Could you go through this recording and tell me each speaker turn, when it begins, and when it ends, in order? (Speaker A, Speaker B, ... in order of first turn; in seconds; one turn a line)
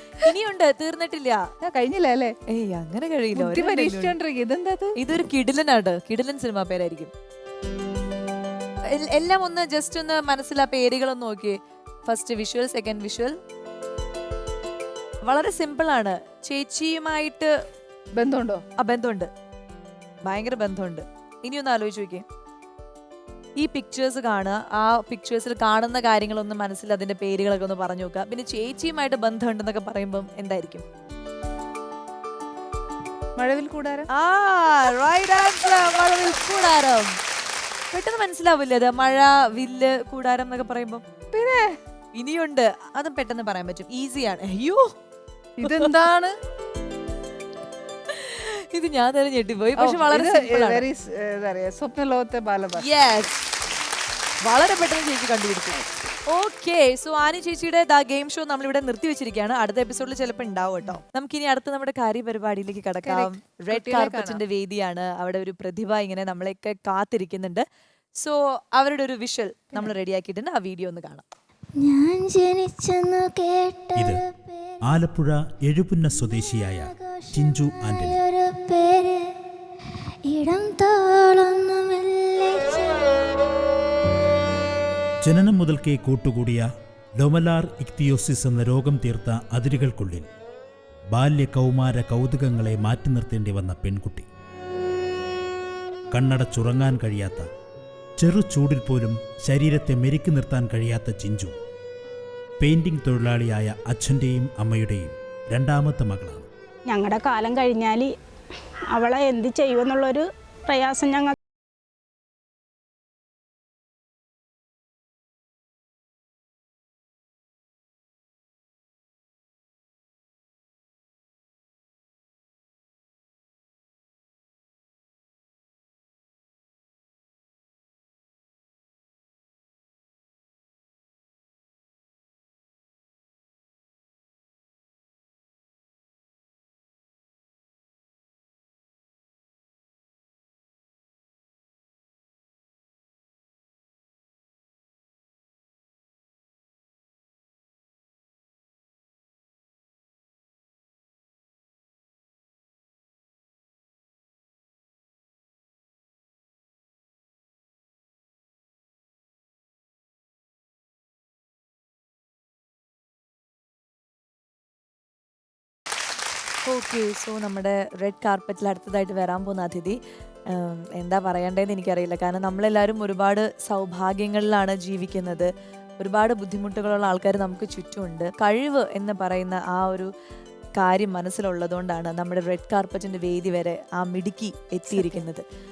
Speaker A: 0.2-1.4
Speaker B: 1.6-2.3
Speaker A: 2.5-4.1
Speaker B: 3.3-5.0
Speaker A: 5.0-7.1
Speaker A: 8.9-13.3
Speaker A: 15.2-17.5
Speaker B: 18.1-18.6
Speaker A: 18.8-19.3
Speaker A: 20.2-22.2
Speaker A: 23.6-30.8
Speaker B: 33.4-34.1
Speaker A: 34.1-37.2
Speaker A: 37.9-41.0
Speaker B: 41.3-41.8
Speaker A: 42.1-44.9
Speaker B: 45.6-46.3
Speaker A: 45.6-45.9
Speaker A: 48.1-50.8
Speaker B: 49.8-52.9
Speaker A: 52.8-53.4
Speaker A: 54.4-55.8
Speaker A: 56.3-67.6
Speaker B: 63.0-64.4
Speaker A: 68.2-71.2
Speaker C: 71.8-74.8
Speaker D: 74.8-78.2
Speaker C: 76.4-79.2
Speaker C: 80.3-83.2
Speaker D: 85.2-86.7
Speaker D: 87.2-90.3
Speaker D: 91.1-94.2
Speaker D: 96.1-97.5
Speaker D: 98.2-101.5
Speaker D: 102.6-106.5
Speaker E: 106.9-108.2
Speaker E: 108.9-111.3
Speaker A: 166.7-170.0
Speaker A: 170.5-175.5
Speaker A: 176.0-180.1
Speaker A: 180.8-185.4
Speaker B: 184.9-185.2